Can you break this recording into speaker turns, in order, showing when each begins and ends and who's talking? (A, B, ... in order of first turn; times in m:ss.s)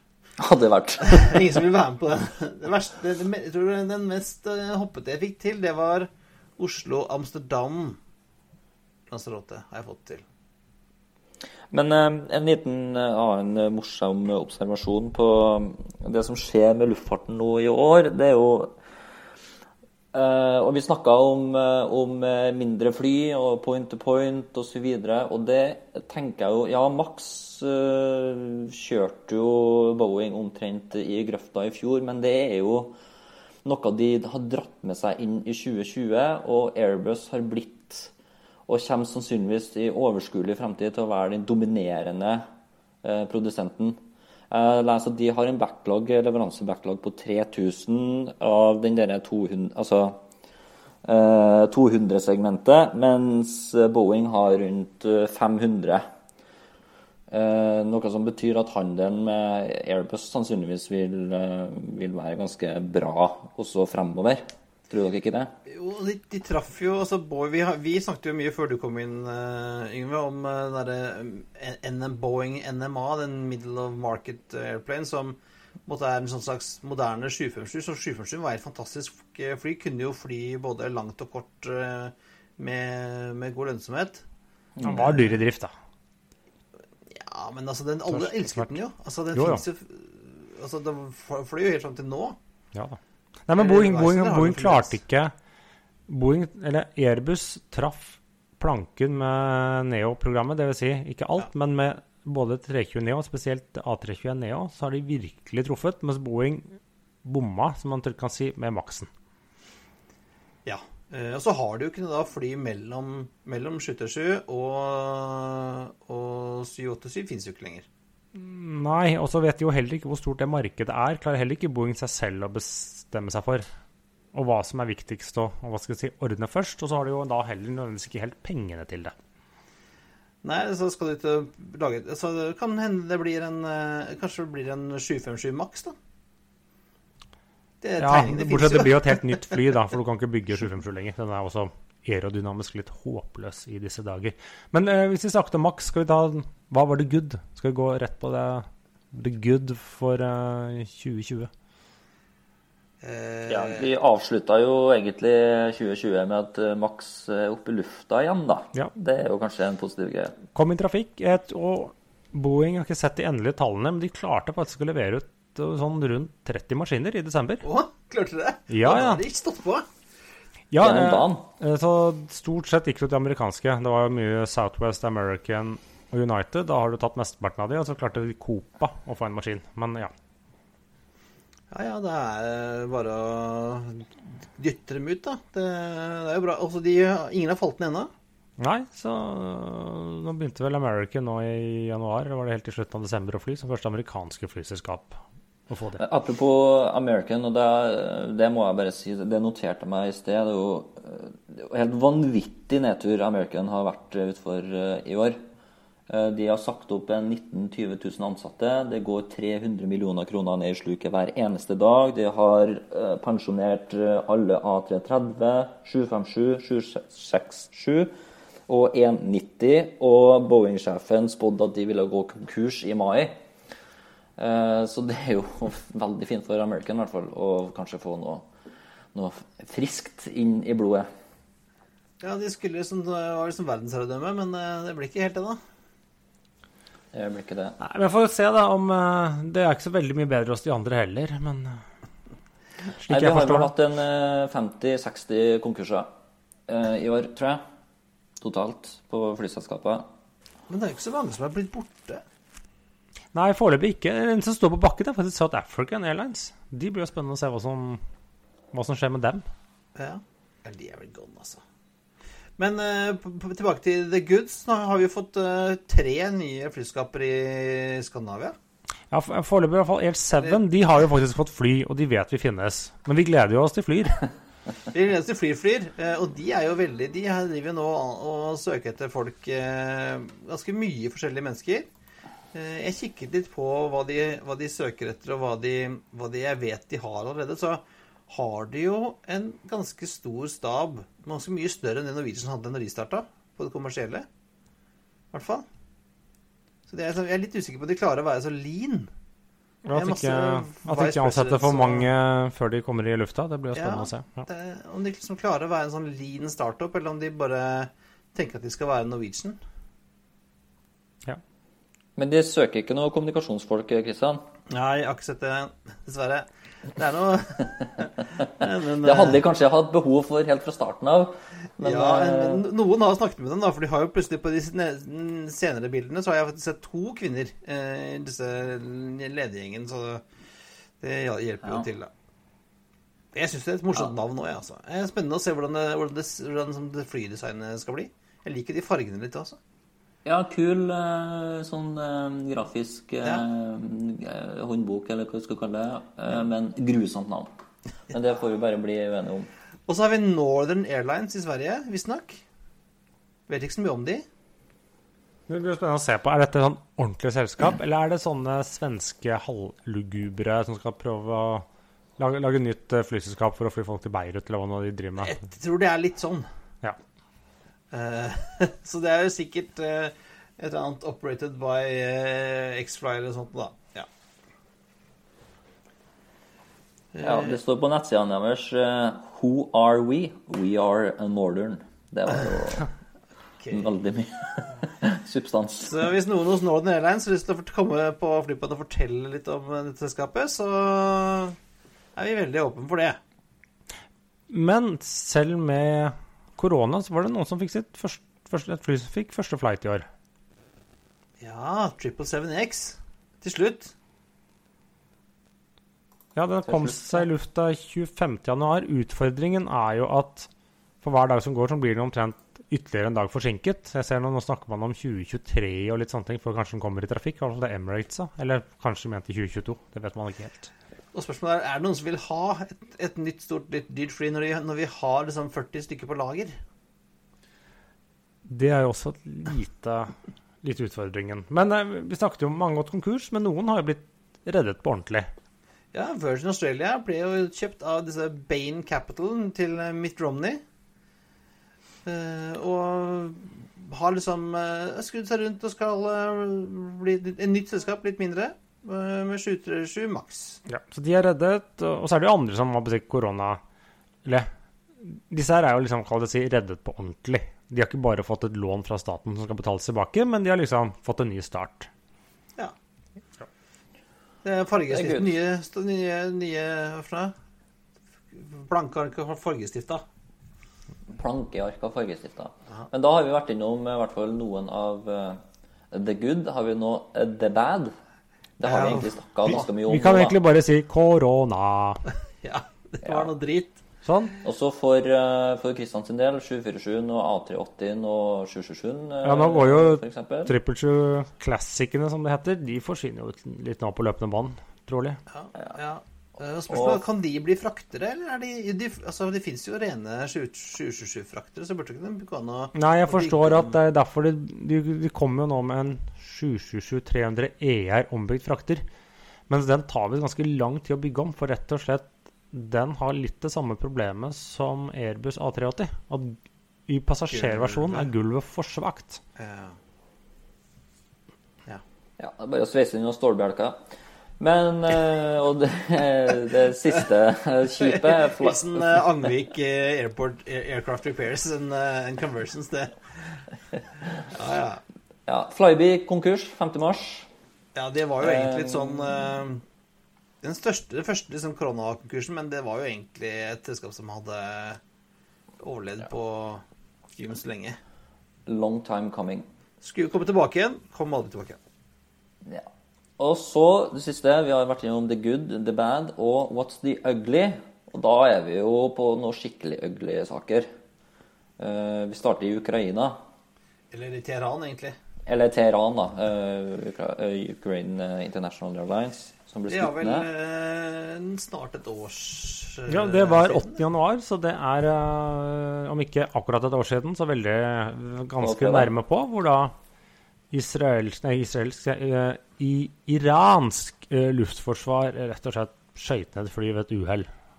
0:00.4-0:01.6 A
0:01.0-0:08.0 B
0:09.1-0:10.2 B
0:11.7-0:18.8 A
0:20.1-0:33.0 A
0:33.6-0:38.1 A
0:38.7-0:42.4 A
0:43.0-0:50.2 A
0:51.0-0:56.0 A
0:57.3-1:05.5 A
1:05.7-1:24.2 B
1:24.8-1:25.1 A
1:24.8-1:25.7 C
1:27.1-1:32.4 B
1:28.1-1:28.8 C
1:29.3-1:29.6 C
1:32.8-1:35.3 C
1:33.5-1:35.0 B
1:36.1-1:49.1 C
1:50.6-1:57.9 B
1:58.3-2:03.7 C
2:04.3-2:09.1 C
2:10.4-2:16.0 B
2:17.8-2:19.5 B
2:18.0-2:31.5 C
2:33.0-2:33.9 B
2:33.5-2:40.4 A
2:40.5-2:47.6 C
2:47.6-2:49.9 B
2:48.7-2:49.2 C
2:50.7-3:00.1 C
2:50.8-2:51.4 A
3:01.7-3:08.1 B
3:08.6-3:16.0 C
3:16.0-3:25.4 A
3:26.1-3:38.1 A
3:38.7-3:43.4 A
3:44.4-3:48.5 A
3:49.1-3:51.1 A
3:52.2-3:55.6 B
3:57.1-3:57.8 A
3:57.8-4:01.8 C
4:03.0-4:03.7 C
4:03.1-4:06.1 A
4:06.7-4:07.6 A
4:08.4-4:10.1 A
4:10.7-4:12.2 B
4:13.3-4:18.0 C
4:18.7-4:19.4 C
4:20.0-4:21.6 B
4:22.6-4:28.6 B
4:29.1-4:34.2 C
4:34.9-4:41.9 B
4:42.5-4:54.3 B
4:55.3-4:55.6 B
4:56.9-4:59.1 B
4:59.8-5:04.5 C
4:59.9-5:02.1 B
5:03.7-5:09.6 B
5:12.2-5:14.5 A
5:14.7-5:19.4 B
5:19.0-5:22.7 A
5:21.8-5:30.2 B
5:31.0-5:32.1 B
5:33.3-5:39.6 B
5:40.2-5:47.5 A
5:48.1-5:49.5 A
5:49.9-5:52.4 B
5:53.5-5:54.2 B
5:55.5-6:01.6 C
6:02.2-6:05.4 C
6:05.2-6:06.5 B
6:07.9-6:14.1 B
6:17.1-6:17.6 B
6:17.2-6:22.9 A
6:23.6-6:23.9 B
6:23.7-6:26.0 A
6:25.8-6:31.6 B
6:32.2-6:33.2 B
6:34.5-6:40.1 C
6:41.4-6:43.9 B
6:46.4-6:50.5 C
6:51.0-7:00.7 C
7:01.1-7:06.6 B
7:08.5-7:15.3 C
7:15.9-7:20.6 B
7:22.0-7:30.6 B
7:30.7-7:33.6 C
7:35.0-7:41.9 C
7:44.4-7:47.3 B
7:44.9-7:45.4 A
7:48.3-7:50.0 B
7:51.1-7:58.0 A
7:58.6-8:00.4 A
7:58.6-7:59.6 B
7:59.6-8:02.0 C
8:02.4-8:03.8 B
8:04.0-8:04.3 C
8:04.4-8:10.5 A
8:09.2-8:15.2 C
8:15.3-8:23.7 B
8:16.7-8:17.0 A
8:22.8-8:28.8 C
8:29.5-8:39.2 C
8:37.3-8:38.1 B
8:39.4-8:39.8 B
8:42.2-8:43.8 A
8:44.4-8:49.1 A
8:47.8-8:53.4 B
8:54.2-8:54.8 B
8:55.3-8:57.3 A
8:57.8-8:59.6 B
8:58.2-8:59.3 A
9:00.4-9:04.8 B
9:05.6-9:06.6 B
9:07.1-9:07.8 B
9:08.5-9:09.5 A
9:09.8-9:11.6 B
9:13.2-9:20.7 A
9:21.6-9:23.2 A
9:23.9-9:25.0 B
9:25.3-9:30.3 A
9:29.7-9:33.8 B
9:32.9-9:39.7 C
9:38.4-9:38.9 A
9:40.5-9:47.3 C